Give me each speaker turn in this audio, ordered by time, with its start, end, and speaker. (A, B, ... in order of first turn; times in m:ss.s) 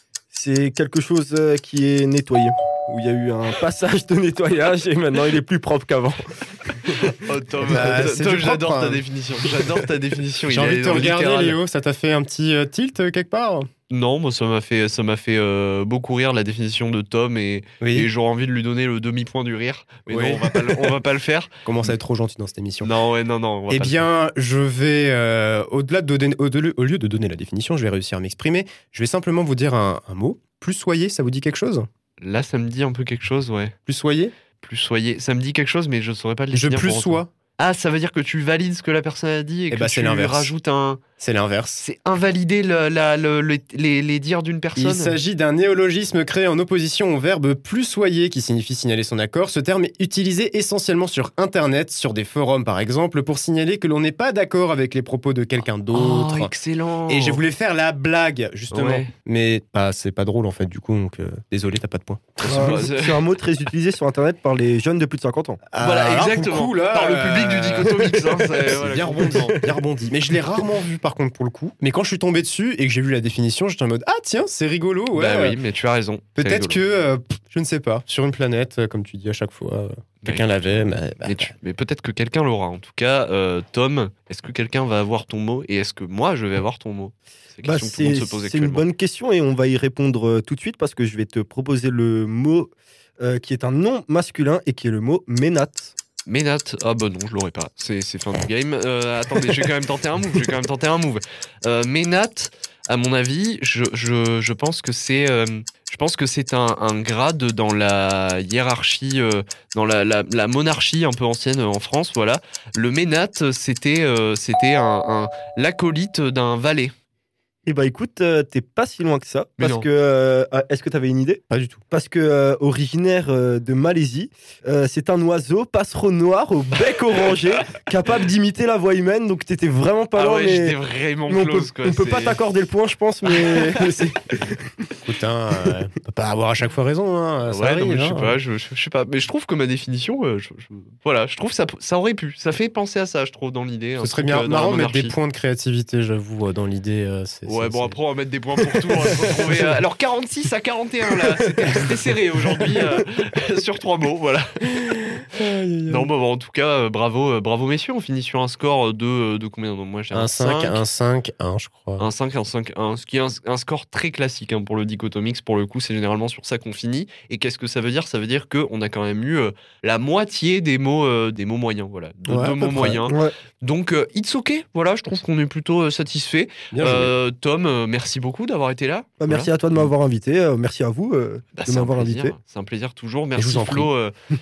0:00.3-0:07.0 A
0:07.0-0:11.6 B
0:07.6-0:09.0 C
0:10.5-0:13.7 C
0:13.9-0:22.0 B
0:17.8-0:18.1 C
0:20.1-0:20.9 C
0:21.7-0:22.9 C
0:22.8-0:24.1 B
0:23.7-0:31.9 C
0:32.2-0:33.8 B
0:33.9-0:34.4 C
0:34.6-0:41.0 B
0:36.5-0:37.3 C
0:39.7-0:40.5 C
0:41.2-0:41.8 C
0:41.8-0:45.2 B
0:44.8-0:56.5 C
0:55.9-0:57.4 B
0:57.1-1:02.9 C
0:58.7-0:59.1 B
1:02.4-1:03.3 B
1:02.4-1:05.6 A
1:05.7-1:15.6 C
1:05.8-1:09.6 B
1:15.1-1:16.8 B
1:16.4-1:21.5 C
1:20.2-1:28.8 B
1:27.6-1:36.0 A
1:36.3-1:56.9 B
1:57.7-2:15.0 A
1:59.6-1:59.9 B
2:01.5-2:01.8 C
2:10.1-2:12.4 B
2:13.4-2:13.8 B
2:15.0-2:18.4 C
2:17.4-2:25.2 B
2:24.0-2:28.0 C
2:27.5-2:35.3 B
2:35.3-2:36.1 C
2:35.9-2:40.8 B
2:40.1-2:42.1 C
2:42.0-2:59.5 B
2:52.3-2:53.0 C
2:53.0-2:53.3 A
2:56.7-2:57.1 C
2:59.2-3:02.4 A
3:01.6-3:04.1 B
3:03.4-3:03.9 C